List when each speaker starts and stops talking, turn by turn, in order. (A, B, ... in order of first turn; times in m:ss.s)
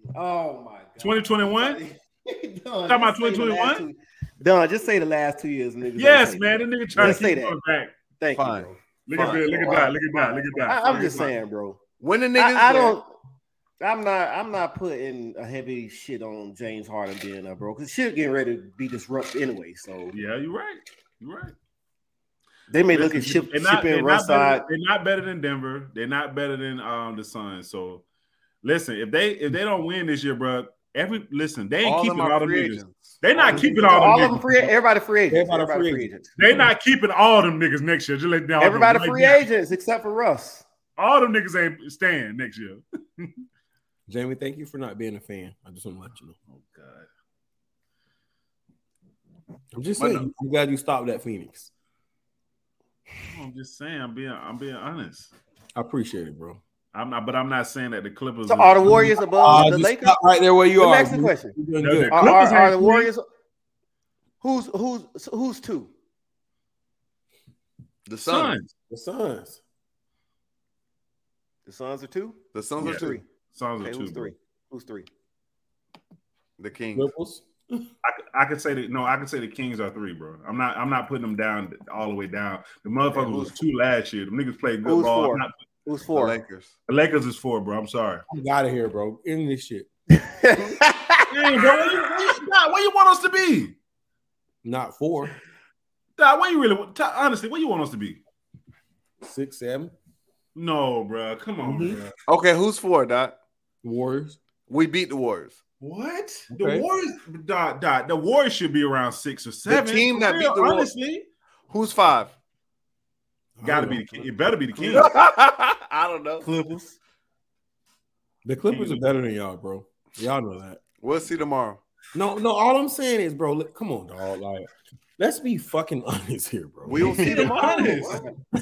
0:00.1-0:07.6 A
0:01.0-0:01.8 B
0:02.9-0:03.8 B
0:06.0-0:07.9 B
0:08.2-0:11.8 A
0:08.3-0:09.9 C
0:09.1-0:11.3 B
0:12.0-0:13.0 C
0:12.4-0:13.1 A
0:13.8-0:20.2 A
0:20.1-0:21.5 B
0:22.7-0:24.6 A
0:22.9-0:28.0 B
0:28.6-0:34.7 B
0:31.8-0:33.2 C
0:33.4-0:36.3 A
0:33.4-0:33.7 D
0:35.3-0:36.7 D
0:36.4-0:39.4 B
0:38.6-0:40.6 A
0:41.0-0:43.3 B
0:44.1-0:46.3 D
0:46.5-0:47.1 B
0:49.7-0:51.7 D
0:50.0-0:50.3 C
0:53.3-0:55.3 B
0:55.7-0:56.6 D
0:56.9-0:59.2 B
0:58.5-1:00.2 A
0:59.4-1:02.4 D
1:00.8-1:01.6 A
1:01.8-1:03.1 B
1:02.1-1:03.2 A
1:04.4-1:05.9 A
1:08.0-1:08.6 C
1:08.2-1:08.7 B
1:08.9-1:09.6 D
1:11.6-1:13.2 A
1:12.5-1:13.2 C
1:12.8-1:14.3 B
1:13.8-1:15.1 A
1:16.6-1:17.1 C
1:16.9-1:17.9 D
1:18.0-1:25.5 B
1:23.1-1:23.5 A
1:24.8-1:26.4 A
1:26.1-1:26.7 C
1:26.9-1:28.2 B
1:28.3-1:29.9 D
1:30.1-1:31.9 A
1:31.3-1:33.7 B
1:34.6-1:35.3 D
1:36.2-1:38.2 B
1:39.2-1:39.9 D
1:40.5-1:42.1 B
1:41.6-1:42.0 D
1:42.3-1:43.4 C
1:43.8-1:44.4 D
1:44.7-1:45.6 C
1:45.8-1:51.3 B
1:46.5-1:46.8 D
1:49.7-1:50.9 C
1:51.7-1:52.3 C
1:53.6-1:54.3 D
1:53.6-1:55.1 B
1:54.8-1:56.4 C
1:56.4-1:57.0 A
1:58.4-2:00.8 D
1:58.7-1:59.0 B
2:01.0-2:01.8 C
2:02.1-2:08.1 D
2:06.8-2:08.2 C
2:07.0-2:07.6 A
2:07.2-2:08.2 B